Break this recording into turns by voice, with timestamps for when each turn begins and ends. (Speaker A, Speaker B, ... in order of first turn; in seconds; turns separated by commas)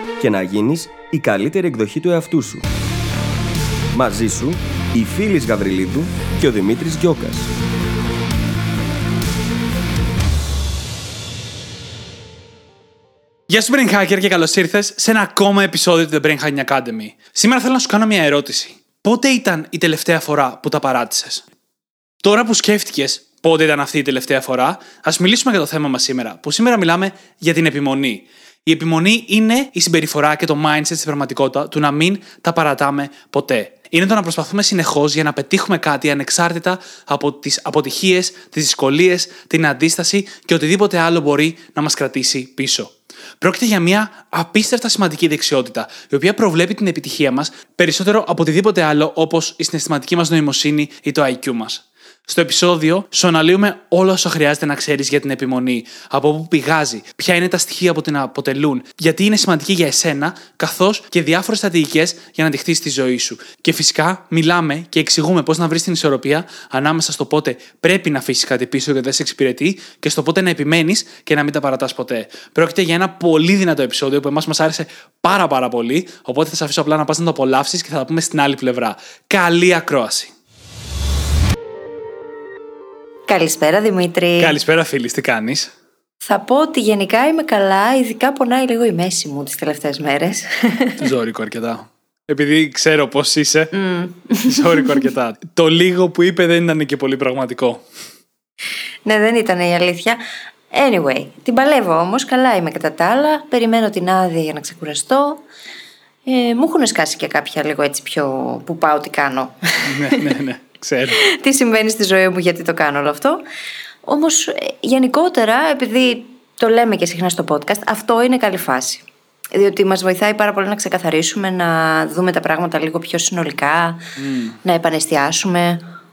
Speaker A: 0.2-2.7, Speaker A: 3.9-7.5, Speaker B: 13.5-21.4, Speaker B: 22.2-80.3, Speaker C: 83.3-84.6, Speaker B: 84.4-85.7, Speaker C: 86.2-91.1, Speaker B: 91.0-93.7, Speaker C: 93.7-94.9, Speaker B: 94.4-97.8, Speaker C: 99.0-100.2, Speaker C: 100.7-105.4, Speaker C: 106.3-110.3, Speaker B: 109.9-111.2, Speaker C: 111.2-113.4, Speaker C: 114.0-124.0, Speaker B: 124.2-124.6, Speaker C: 124.6-125.8